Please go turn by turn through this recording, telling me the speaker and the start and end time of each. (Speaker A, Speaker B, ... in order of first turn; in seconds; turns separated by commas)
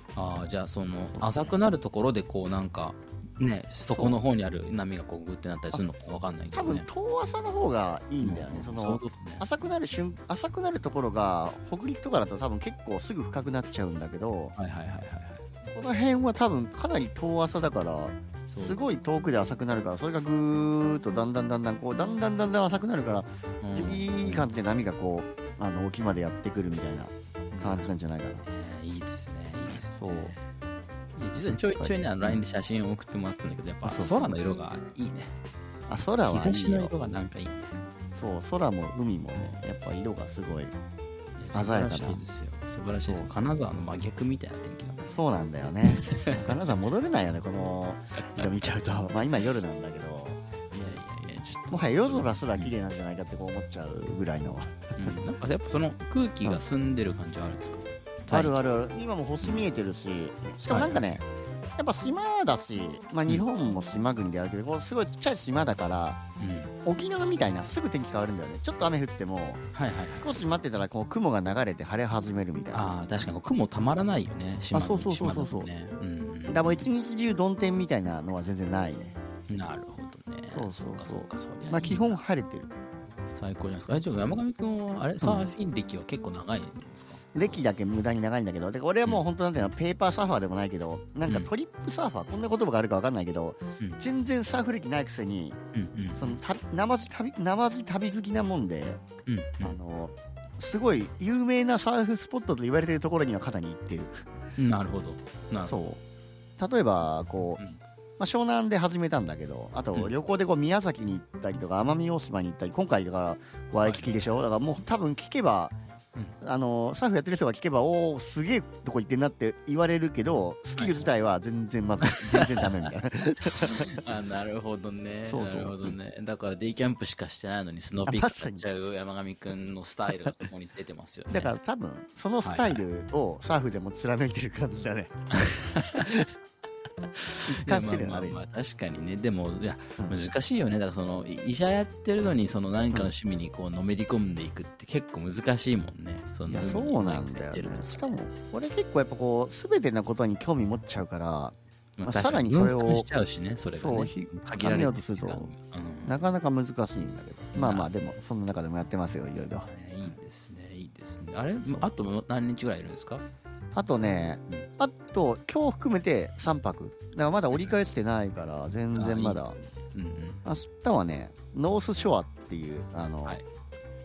Speaker A: 0.1-6.8, Speaker B: 1.1-1.5, Speaker B: 3.9-4.2, Speaker B: 6.5-14.5, Speaker A: 8.2-9.4, Speaker A: 14.6-15.4, Speaker B: 15.6-28.4, Speaker A: 18.5-18.9, Speaker A: 23.6-24.5, Speaker A: 27.5-30.4, Speaker B: 29.7-30.3, Speaker A: 31.1-35.3, Speaker B: 31.3-32.4, Speaker B: 33.8-34.4, Speaker B: 35.9-36.9, Speaker A: 36.2-37.7, Speaker B: 38.1-40.7, Speaker A: 41.4-45.1, Speaker B: 41.5-42.2, Speaker B: 43.0-43.3, Speaker B: 45.0-50.4, Speaker A: 45.9-46.5, Speaker A: 50.7-52.7, Speaker B: 51.7-55.2, Speaker A: 55.0-58.7, Speaker B: 58.3-61.2, Speaker A: 59.4-59.7, Speaker A: 60.7-61.2, Speaker B: 61.8-66.2, Speaker A: 66.4-66.7, Speaker B: 66.8-69.6, Speaker A: 69.7-70.4, Speaker B: 70.1-72.9, Speaker A: 72.7-76.9, Speaker B: 74.7-75.7, Speaker B: 76.5-79.2, Speaker A: 79.5-82.2, Speaker B: 80.5-82.7, Speaker A: 83.3-87.6, Speaker B: 85.2-85.5, Speaker B: 87.3-95.6, Speaker A: 91.2-91.5, Speaker A: 95.7-96.4, Speaker B: 96.2-99.0, Speaker A: 99.2-99.8, Speaker B: 99.6-104.2, Speaker A: 104.6-105.8, Speaker B: 105.7-106.0, Speaker B: 106.6-107.6, Speaker B: 108.2-115.7, Speaker A: 113.8-114.2, Speaker B: 116.4-124.0, Speaker A: 120.8-121.1, Speaker A: 122.1-122.9, Speaker A: 123.8-131.5, Speaker B: 125.3-126.0, Speaker B: 128.1-128.7, Speaker B: 131.3-136.3, Speaker A: 132.4-132.8, Speaker A: 135.5-136.1, Speaker A: 137.2-148.1, Speaker B: 137.4-138.4, Speaker B: 146.4-153.1, Speaker A: 152.0-156.2, Speaker B: 153.7-155.5, Speaker B: 156.0-159.7, Speaker A: 157.5-157.9, Speaker A: 159.6-163.2, Speaker B: 163.7-169.6, Speaker A: 168.9-170.4, Speaker B: 170.4-173.4